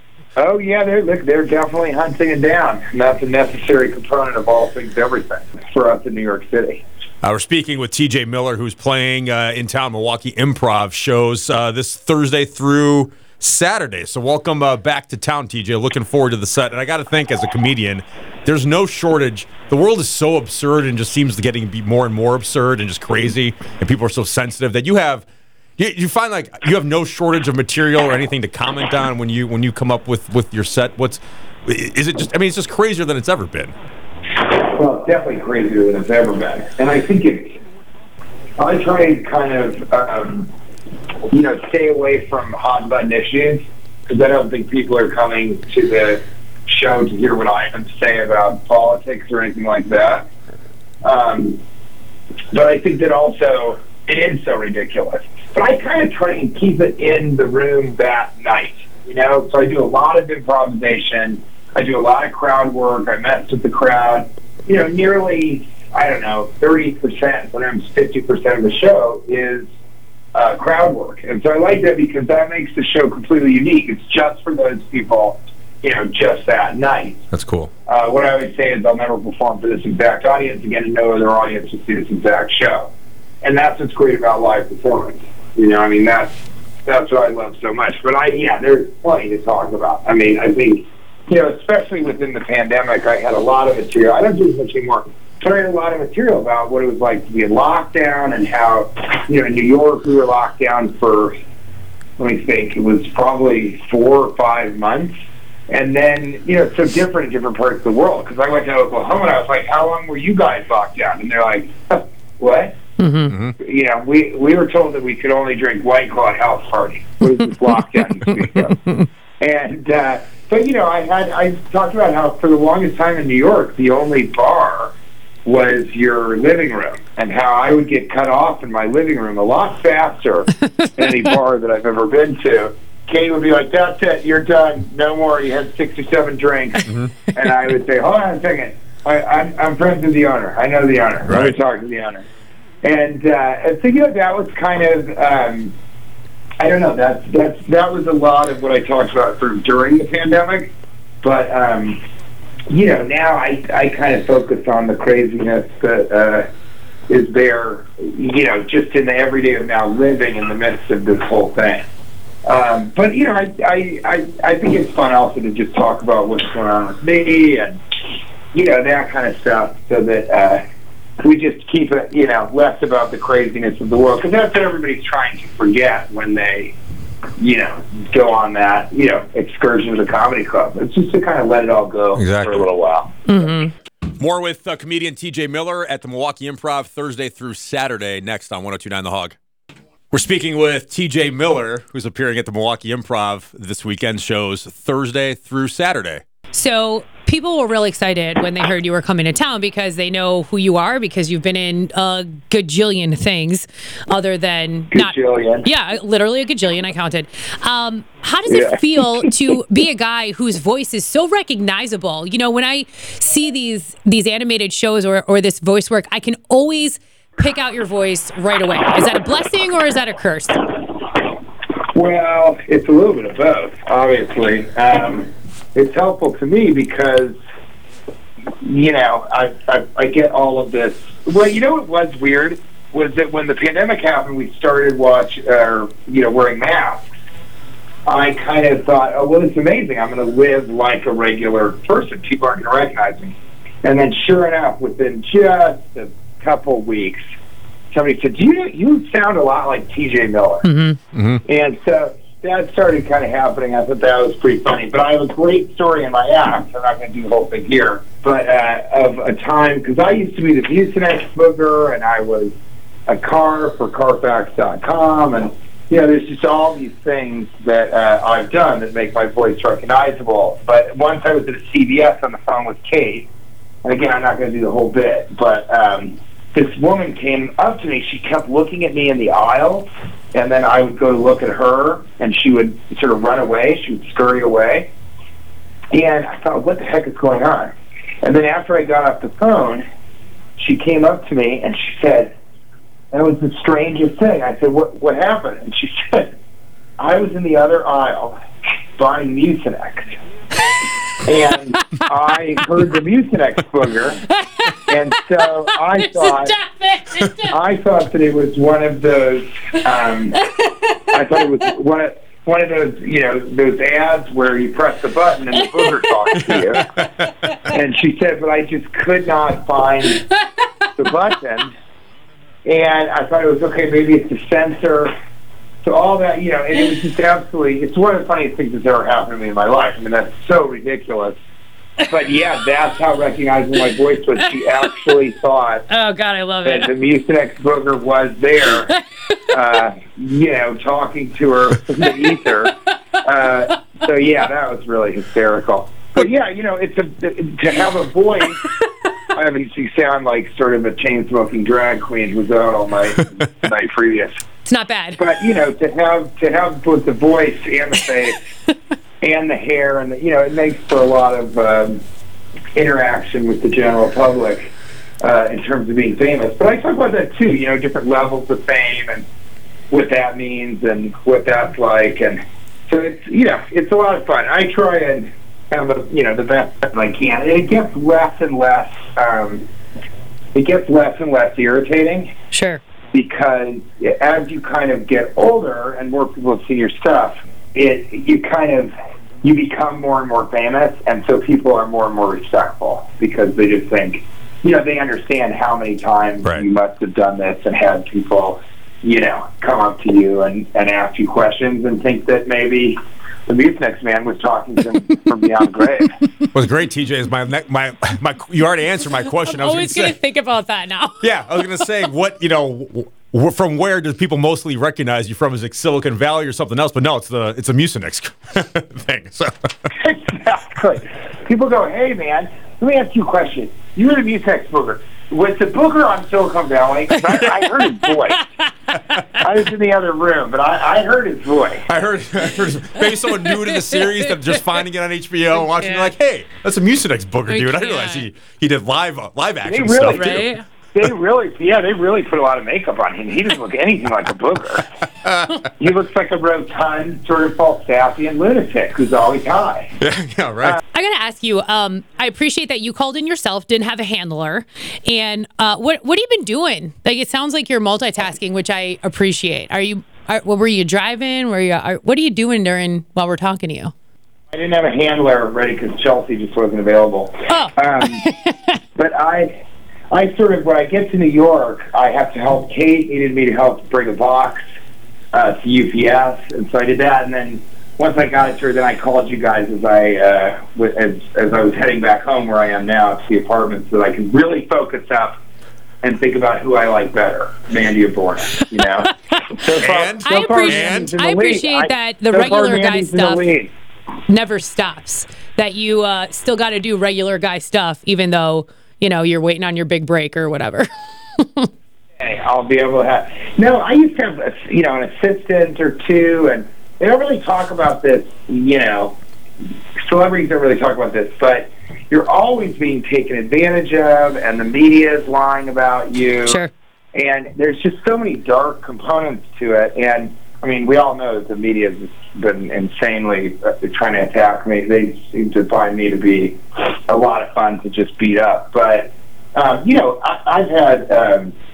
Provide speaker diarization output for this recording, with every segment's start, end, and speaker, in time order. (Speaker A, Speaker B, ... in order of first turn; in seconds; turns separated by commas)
Speaker A: 0.4-6.8, Speaker B: 7.2-25.2, Speaker B: 25.8-33.7, Speaker A: 34.4-37.6, Speaker A: 38.6-40.5, Speaker A: 41.3-50.2, Speaker A: 51.0-51.6, Speaker A: 52.5-69.7, Speaker A: 70.3-77.2, Speaker B: 77.3-77.7, Speaker A: 77.9-82.9, Speaker A: 83.4-101.3, Speaker A: 102.2-105.1, Speaker A: 105.7-112.8, Speaker C: 113.0-113.3, Speaker A: 113.6-118.8, Speaker C: 118.7-119.0, Speaker A: 119.4-124.9, Speaker A: 125.4-142.2, Speaker B: 136.8-137.1, Speaker B: 141.3-141.6, Speaker A: 142.8-145.7, Speaker A: 146.6-150.7, Speaker A: 151.2-152.0, Speaker A: 152.7-156.5, Speaker A: 157.1-161.8, Speaker A: 162.4-167.8, Speaker A: 168.5-170.6, Speaker A: 171.2-176.7, Speaker A: 177.4-183.2, Speaker B: 182.1-182.7, Speaker C: 183.3-183.7, Speaker B: 184.2-189.3, Speaker B: 190.1-196.2, Speaker C: 196.5-220.7, Speaker A: 204.9-205.7, Speaker A: 208.5-209.5, Speaker A: 221.9-227.3, Speaker A: 228.6-237.1, Speaker A: 238.1-247.2, Speaker A: 247.9-250.7, Speaker C: 250.6-251.0, Speaker B: 251.1-251.4, Speaker A: 251.4-262.5, Speaker A: 263.1-273.3, Speaker A: 273.8-284.9, Speaker A: 285.9-287.7, Speaker A: 288.2-289.8, Speaker A: 290.6-292.3, Speaker A: 293.1-296.3, Speaker A: 297.0-298.4, Speaker A: 298.9-300.2, Speaker A: 301.2-304.2, Speaker C: 304.6-307.6, Speaker A: 304.9-306.5, Speaker A: 307.5-310.4, Speaker C: 310.4-310.9, Speaker A: 311.1-316.9, Speaker C: 315.6-316.2, Speaker B: 316.4-317.3, Speaker A: 317.7-320.2, Speaker A: 320.9-321.7, Speaker A: 322.6-325.1, Speaker A: 325.8-331.4, Speaker A: 332.1-335.9, Speaker C: 335.9-336.9, Speaker A: 336.6-338.9, Speaker C: 338.9-339.6, Speaker A: 339.5-348.6, Speaker A: 349.3-354.3, Speaker C: 354.6-355.2, Speaker A: 355.2-358.4, Speaker A: 359.2-362.0, Speaker A: 362.7-369.2, Speaker A: 369.9-379.6, Speaker A: 380.5-382.3, Speaker C: 382.5-382.8, Speaker A: 383.1-388.9, Speaker A: 389.4-403.0, Speaker A: 403.5-406.1, Speaker B: 406.5-410.1, Speaker C: 409.3-411.9, Speaker B: 411.2-419.9, Speaker A: 420.0-428.4, Speaker C: 428.1-428.4, Speaker B: 428.9-429.2, Speaker A: 429.4-431.9, Speaker B: 431.9-440.5, Speaker C: 433.0-434.6, Speaker C: 435.5-436.1, Speaker C: 437.5-438.2, Speaker A: 439.6-444.9, Speaker C: 440.1-440.6, Speaker B: 445.2-445.6, Speaker A: 445.6-449.9, Speaker B: 450.0-450.8, Speaker C: 450.9-463.9, Speaker A: 464.5-468.2, Speaker C: 467.5-468.7, Speaker A: 468.9-469.5, Speaker A: 470.1-474.6, Speaker A: 475.3-485.4, Speaker A: 486.0-493.7, Speaker C: 488.8-489.6, Speaker B: 489.8-491.2, Speaker C: 490.2-493.5, Speaker C: 494.3-501.7, Speaker A: 502.2-509.2, Speaker A: 510.0-516.6, Speaker A: 517.1-531.5